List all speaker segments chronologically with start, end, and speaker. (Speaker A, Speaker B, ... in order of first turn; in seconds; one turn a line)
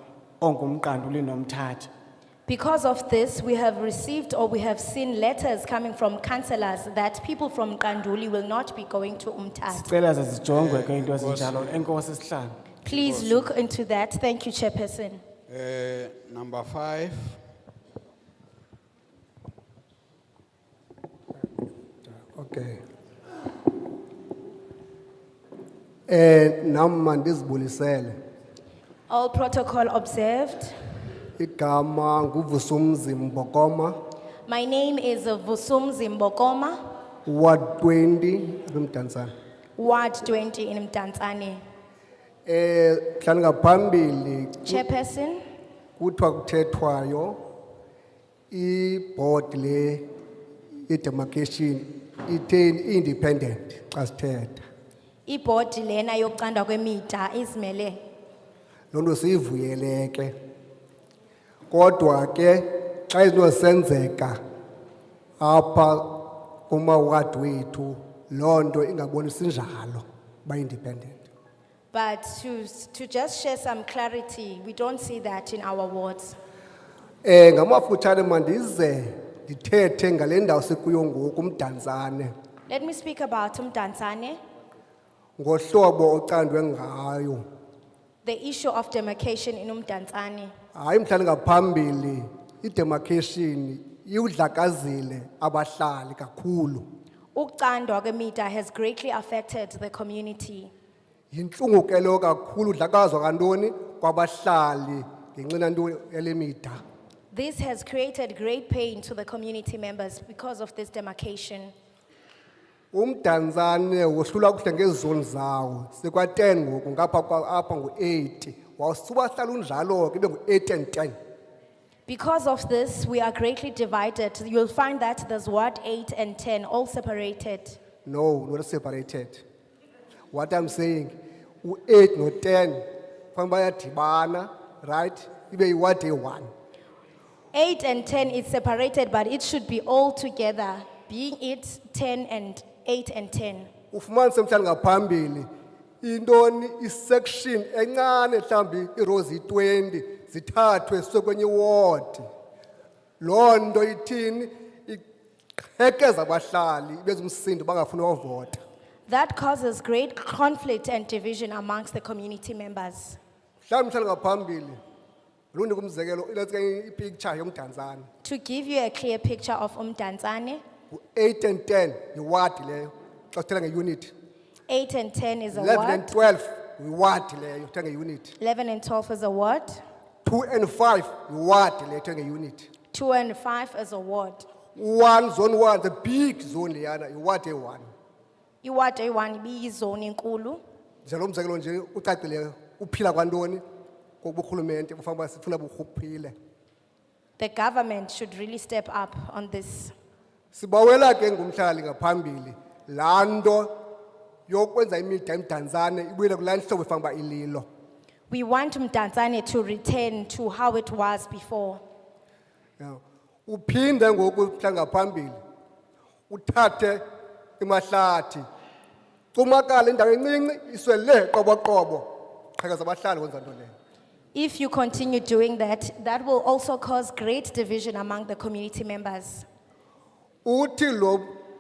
Speaker A: 0.4-1.9
Speaker B: 2.5-9.9
Speaker A: 9.8-12.6
Speaker C: 10.5-11.8
Speaker B: 12.8-15.2
Speaker C: 12.9-13.5
Speaker C: 15.5-17.4
Speaker D: 22.3-22.8
Speaker D: 26.1-28.2
Speaker B: 29.1-30.7
Speaker D: 31.4-34.0
Speaker B: 34.5-36.8
Speaker D: 37.3-39.3
Speaker B: 39.8-41.6
Speaker D: 42.5-44.8
Speaker B: 44.7-45.4
Speaker D: 46.0-47.4
Speaker D: 48.5-50.1
Speaker D: 50.9-54.6
Speaker B: 55.3-58.0
Speaker D: 58.9-60.3
Speaker D: 61.7-64.4
Speaker D: 65.4-71.3
Speaker B: 71.9-76.4
Speaker D: 77.2-82.3
Speaker B: 82.7-84.4
Speaker D: 85.4-87.4
Speaker B: 88.2-90.5
Speaker D: 90.8-96.9
Speaker B: 97.3-100.7
Speaker D: 101.3-106.8
Speaker B: 107.3-111.7
Speaker D: 112.9-121.2
Speaker B: 122.1-127.8
Speaker D: 128.1-129.4
Speaker D: 130.3-136.5
Speaker B: 137.5-143.7
Speaker D: 143.9-145.5
Speaker D: 146.0-152.3
Speaker D: 153.2-155.0
Speaker D: 155.7-158.6
Speaker B: 159.1-163.2
Speaker D: 163.7-164.8
Speaker D: 165.5-168.1
Speaker B: 168.2-170.6
Speaker D: 170.9-174.1
Speaker B: 174.7-176.2
Speaker D: 175.5-178.3
Speaker B: 178.4-179.8
Speaker D: 180.2-182.7
Speaker B: 182.9-184.5
Speaker D: 184.8-187.9
Speaker B: 188.6-190.6
Speaker D: 191.1-193.6
Speaker D: 194.2-196.3
Speaker B: 197.4-199.9
Speaker D: 200.5-203.7
Speaker D: 204.5-207.7
Speaker B: 208.3-211.8
Speaker D: 212.8-215.4
Speaker D: 216.3-217.0
Speaker D: 217.6-218.4
Speaker D: 219.3-223.7
Speaker B: 224.3-229.4
Speaker D: 230.4-231.3